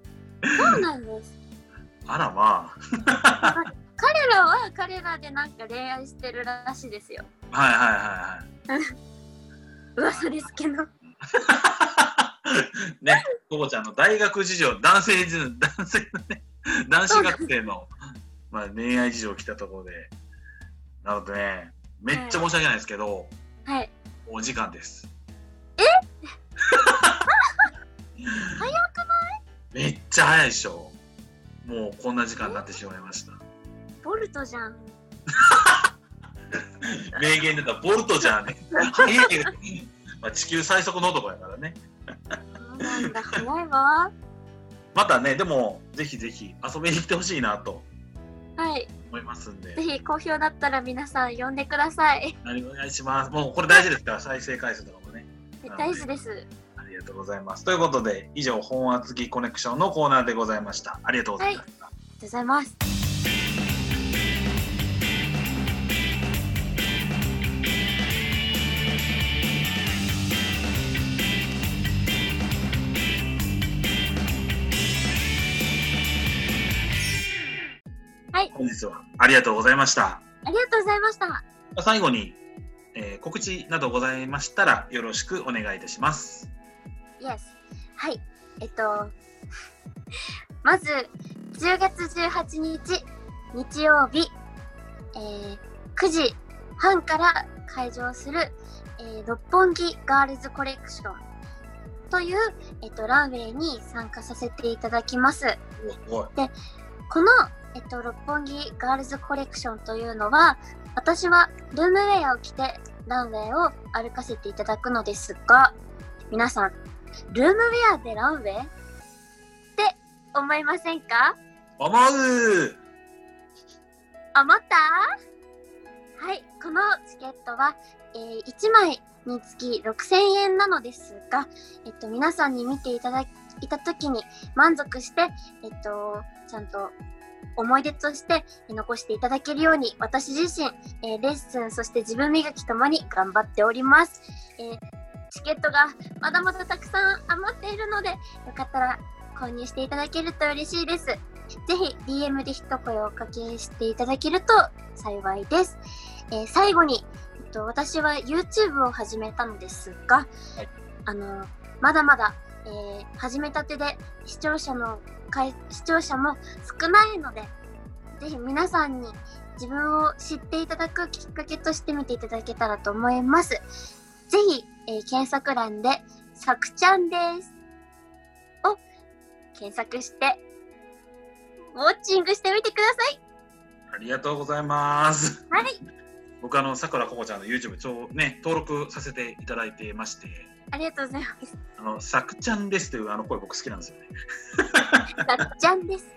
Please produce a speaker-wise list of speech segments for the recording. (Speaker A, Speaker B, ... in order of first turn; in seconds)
Speaker A: 0.5-0.8, 2.1-3.6, 7.5-8.5, 11.3-17.9, 18.5-20.1, 21.0-23.3, 24.3-25.1, 26.7-27.3, 28.2-28.6, 29.7-31.0, 31.6-33.4, 35.3-35.9, 36.8-41.8, 44.9-47.9, 49.1-49.8, 52.4-56.1, 56.8-61.9, 78.5-80.2, 81.8-82.4, 82.9-86.5, 105.8-106.3, 121.8-122.8, 183.9-185.6, 186.4-190.5, 191.8-195.2
Speaker B: 0.6-1.3, 3.4-7.3, 8.7-8.9, 10.0-10.9, 17.1-17.5, 22.1-22.4, 23.7-23.9, 28.6-29.4, 34.0-34.8, 38.8-39.5, 42.6-44.1, 48.6-48.9, 49.8-52.4, 55.6-56.5, 62.2-62.8, 80.5-81.4, 87.2-89.1, 90.6-94.3, 95.2-101.2, 102.1-105.6, 107.1-115.8, 116.3-116.8, 117.3-118.7, 119.8-121.4, 124.3-125.0, 126.2-136.9, 137.6-155.8, 156.3-160.3, 161.1-167.5, 168.2-173.6, 174.3-177.5, 179.6-180.4, 181.7-183.2, 185.5-185.8, 190.7-191.5, 195.2-196.1